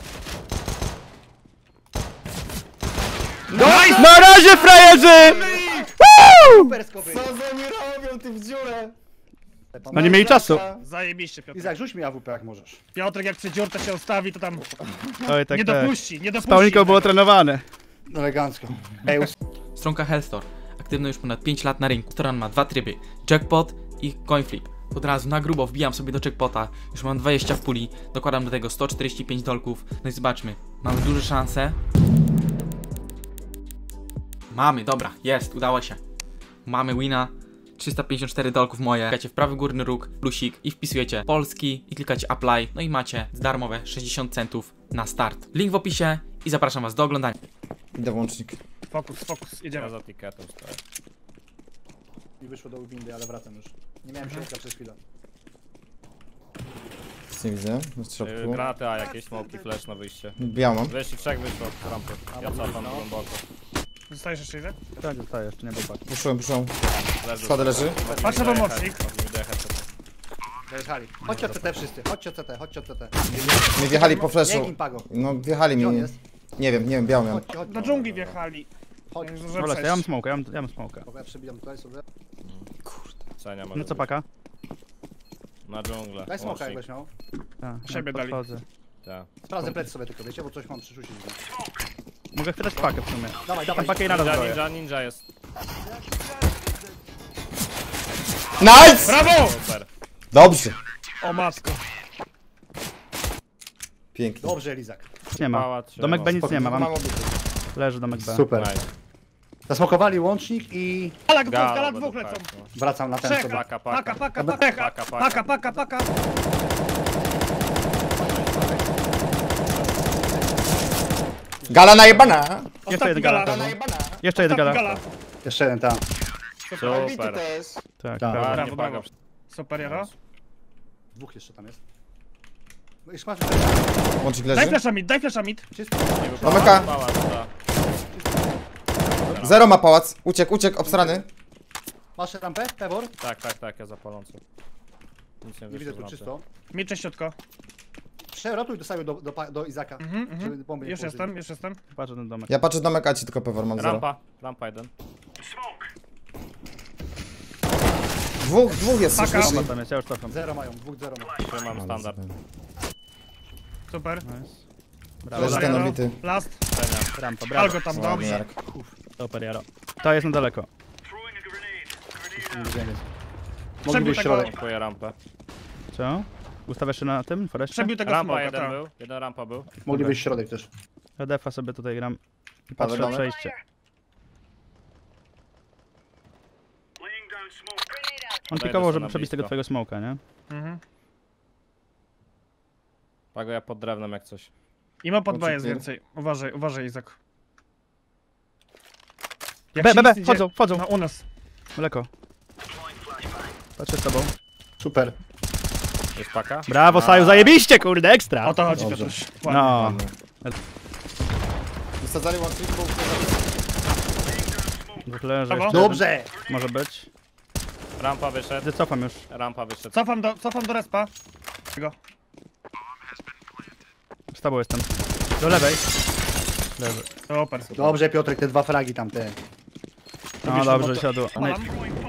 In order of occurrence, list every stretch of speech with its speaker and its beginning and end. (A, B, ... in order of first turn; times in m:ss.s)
0:03.5-0:03.9 A
0:03.6-0:04.3 B
0:03.8-0:06.7 C
0:04.9-0:05.9 D
0:06.4-0:07.3 A
0:07.0-0:09.0 D
0:09.7-0:10.2 A
0:09.9-0:10.7 C
0:10.0-0:10.8 D
0:10.8-0:11.8 B
0:11.5-0:12.8 A
0:12.9-0:14.6 B
0:14.8-0:15.4 D
0:15.3-0:17.6 C
0:15.5-0:17.2 B
0:18.1-0:19.3 A
0:19.8-0:31.8 E
0:34.5-0:36.0 E
0:36.6-0:47.4 E
0:48.0-0:48.6 D
0:48.9-0:50.0 B
0:49.8-0:50.8 F
0:52.4-0:55.0 A
0:54.2-0:54.5 B
0:57.3-0:58.7 D
0:58.2-1:03.4 F
0:59.0-0:59.7 A
1:00.4-1:01.0 D
1:02.3-1:03.1 A
1:04.1-1:04.8 B
1:05.0-1:06.0 C
1:06.1-1:06.8 D
1:07.0-1:09.9 F
1:07.3-1:08.0 D
1:08.0-1:08.4 A
1:08.2-1:09.0 B
1:10.7-1:16.2 A
1:11.2-1:11.8 C
1:13.3-1:18.2 D
1:17.2-1:17.9 A
1:17.6-1:18.7 B
1:19.1-1:19.4 A
1:19.2-1:20.1 B
1:19.6-1:21.1 C
1:21.0-1:22.0 A
1:23.4-1:24.1 F
1:23.8-1:24.2 C
1:25.6-1:26.8 F
1:26.3-1:27.1 A
1:27.6-1:28.6 C
1:27.8-1:28.5 B
1:29.0-1:29.7 F
1:29.5-1:31.4 A
1:32.3-1:34.6 C
1:33.4-1:34.2 A
1:33.8-1:35.2 F
1:38.6-1:39.2 D
1:38.6-1:39.9 F
1:39.0-1:39.6 B
1:40.3-1:40.8 D
1:41.2-1:41.8 B
1:44.1-1:44.5 D
1:44.4-1:45.1 A
1:45.4-1:47.0 C
1:45.4-1:46.4 F
1:46.4-1:46.8 A
1:46.4-1:47.4 D
1:47.8-1:48.5 C
1:48.2-1:48.8 A
1:48.5-1:48.9 F
1:49.7-1:51.2 A
1:51.3-1:52.5 B
1:51.4-1:52.7 F
1:52.7-1:53.7 A
1:53.2-1:56.1 B
1:53.5-1:55.6 F
1:54.4-1:54.6 A
1:58.2-1:58.8 A
1:58.3-1:58.8 F
2:01.6-2:02.4 A
2:01.7-2:02.9 D
2:02.8-2:03.7 B
2:02.9-2:05.0 C
2:03.4-2:04.2 D
2:04.4-2:05.0 B
2:05.4-2:06.0 A
2:06.8-2:07.4 F
2:06.8-2:07.8 D
2:08.0-2:08.6 C
2:08.2-2:08.6 A
2:08.3-2:09.1 F
2:08.5-2:10.1 B
2:09.8-2:10.1 F
2:11.2-2:11.8 A
2:13.1-2:14.1 A
2:14.2-2:14.8 D
2:14.5-2:15.7 B
2:15.7-2:16.9 A
2:16.2-2:17.5 F
2:16.4-2:16.9 D
2:18.1-2:18.5 A
2:19.0-2:19.7 F
2:19.4-2:21.2 D
2:20.8-2:21.3 A
2:22.2-2:23.1 A
2:23.2-2:24.4 F
2:25.4-2:26.3 F
2:25.7-2:26.4 A
2:26.7-2:27.4 B
2:28.3-2:31.3 A
2:30.0-2:31.8 B
2:31.9-2:32.5 C
2:32.5-2:34.1 D
2:33.8-2:34.9 F
2:38.4-2:39.7 D
2:39.1-2:39.7 B
2:39.3-2:40.4 C
2:40.3-2:41.4 A
2:41.4-2:42.2 F
2:41.7-2:42.4 D
2:43.9-2:44.3 B
2:44.2-2:44.6 C
2:45.2-2:46.0 C
2:45.3-2:46.6 B
2:45.4-2:46.2 D
2:46.7-2:47.1 F
2:47.2-2:48.4 C
2:47.5-2:48.5 B
2:47.9-2:48.6 D
2:48.7-2:49.0 A
2:49.2-2:50.7 C
2:52.4-2:53.0 A
2:53.8-2:54.5 A
2:53.8-2:54.5 B
2:54.4-2:55.2 F
2:55.9-2:58.0 C
2:57.7-2:58.8 B
2:58.1-2:59.7 F
2:59.8-3:00.7 A
2:59.9-3:00.2 C
3:01.2-3:03.6 C
3:02.8-3:03.3 D
3:08.5-3:10.2 C
3:08.5-3:09.5 F
3:10.5-3:10.8 B
3:13.3-3:14.5 F
3:15.0-3:17.2 B
3:15.3-3:15.8 A
3:19.7-3:21.2 B
3:19.8-3:20.9 C
3:21.8-3:22.1 C
3:23.8-3:24.3 C
3:24.8-3:25.2 A
3:26.2-3:27.6 F
3:26.7-3:28.6 C
3:28.4-3:29.9 B
3:28.7-3:29.2 A
3:29.5-3:30.5 C
3:29.8-3:30.1 D
3:32.0-3:33.4 D
3:35.0-3:37.1 C
3:35.5-3:35.8 B
3:35.7-3:36.4 A
3:38.0-3:38.7 F
3:38.6-3:39.3 C
3:39.3-3:40.0 F
3:39.9-3:41.1 B
3:44.3-3:45.8 C
3:46.8-3:47.1 C
3:47.3-3:47.7 B
3:47.7-3:48.0 D
3:47.8-3:49.4 A
3:50.4-3:51.6 C
3:50.4-3:51.7 B